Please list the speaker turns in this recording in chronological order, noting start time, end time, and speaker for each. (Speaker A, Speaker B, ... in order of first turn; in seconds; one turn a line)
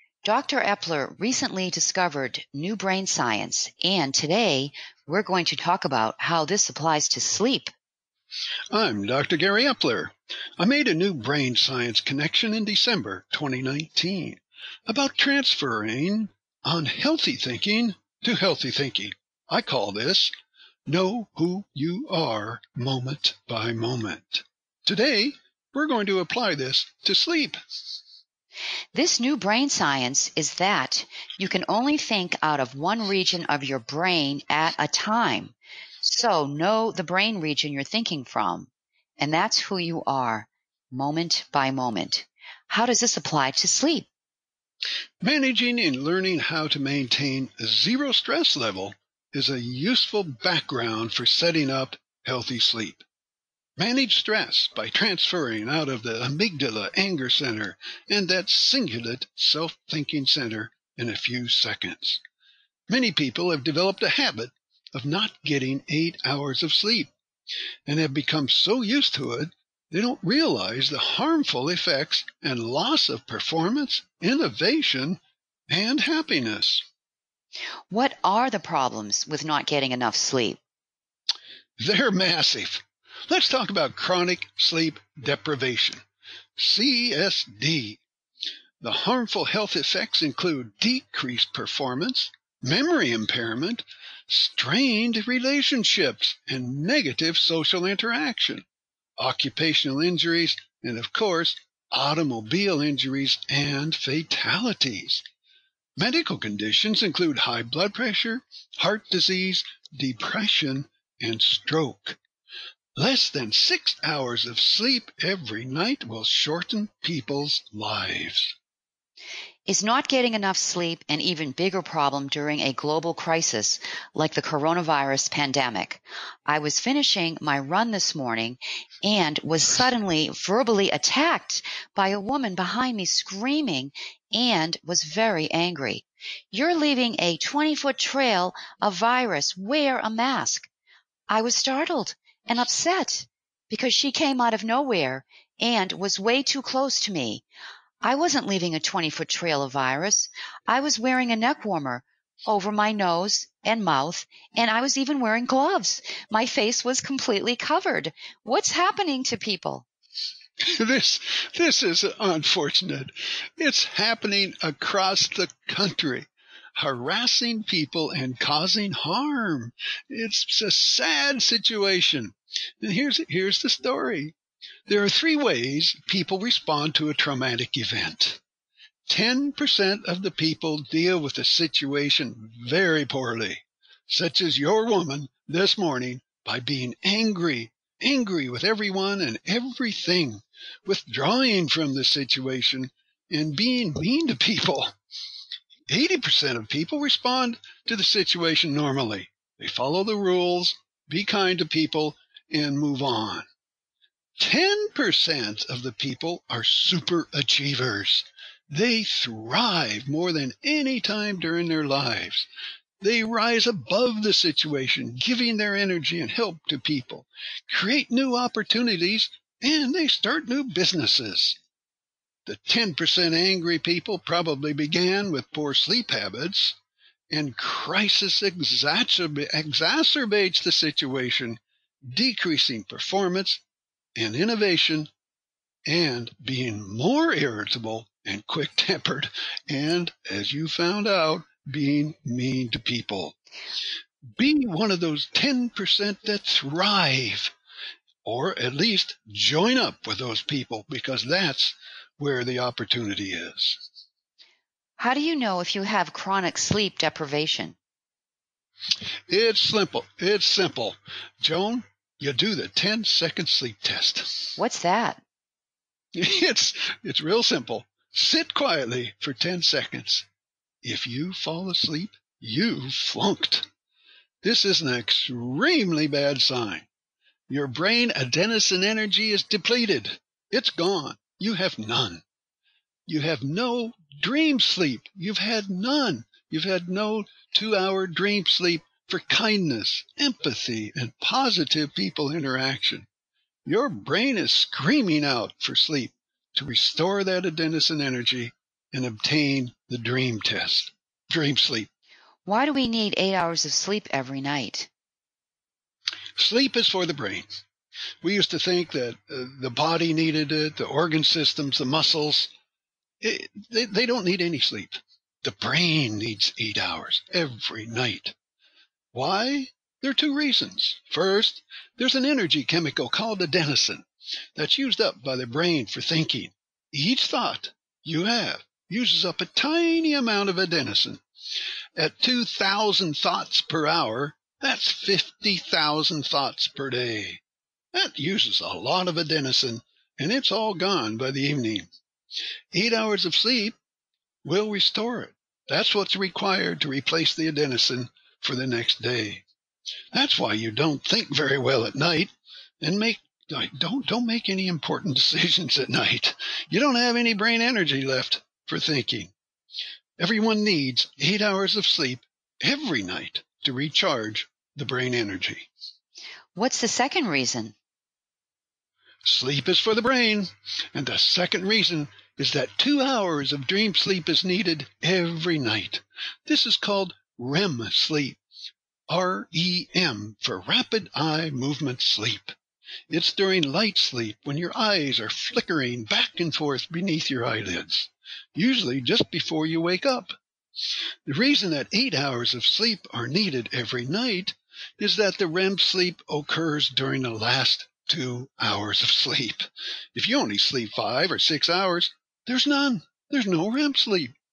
Speaker A: 0.2-7.7
Speaker B: 8.7-20.3
Speaker B: 20.9-27.6
Speaker A: 28.9-44.1
Speaker B: 45.2-53.0
Speaker B: 53.8-62.2
Speaker B: 62.9-67.1
Speaker B: 67.9-76.8
Speaker A: 77.9-80.6
Speaker B: 81.8-86.0
Speaker B: 86.6-88.0
Speaker B: 88.8-98.7
Speaker B: 99.2-105.2
Speaker B: 106.0-112.2
Speaker B: 113.0-118.5
Speaker A: 119.7-140.7
Speaker A: 141.3-147.4
Speaker A: 148.0-159.9
Speaker B: 160.7-174.3
Speaker B: 174.9-178.4
Speaker B: 179.1-194.9
Speaker B: 195.9-203.5
Speaker B: 204.4-212.5
Speaker B: 213.0-221.6
Speaker B: 222.4-226.8
Speaker B: 227.3-233.6
Speaker B: 234.2-235.1
Speaker B: 235.9-243.3
Speaker B: 244.3-247.5
Speaker B: 248.2-253.8
Speaker A: 255.0-257.8
Speaker B: 259.3-264.6
Speaker A: 264.6-265.2
Speaker B: 266.1-270.3
Speaker B: 270.8-273.7
Speaker B: 274.4-276.9
Speaker B: 277.5-282.2
Speaker B: 283.1-293.1
Speaker B: 293.6-301.9
Speaker A: 302.4-304.9
Speaker B: 306.4-307.5
Speaker B: 308.2-312.5
Speaker B: 313.2-318.4
Speaker B: 319.1-331.2
Speaker B: 331.9-337.4
Speaker B: 337.9-341.9
Speaker B: 342.7-343.7
Speaker B: 344.4-349.4
Speaker B: 350.1-359.3
Speaker B: 360.2-365.7
Speaker A: 366.5-367.7
Speaker B: 369.2-378.4
Speaker B: 379.1-382.6
Speaker B: 383.1-390.4
Speaker B: 391.2-404.3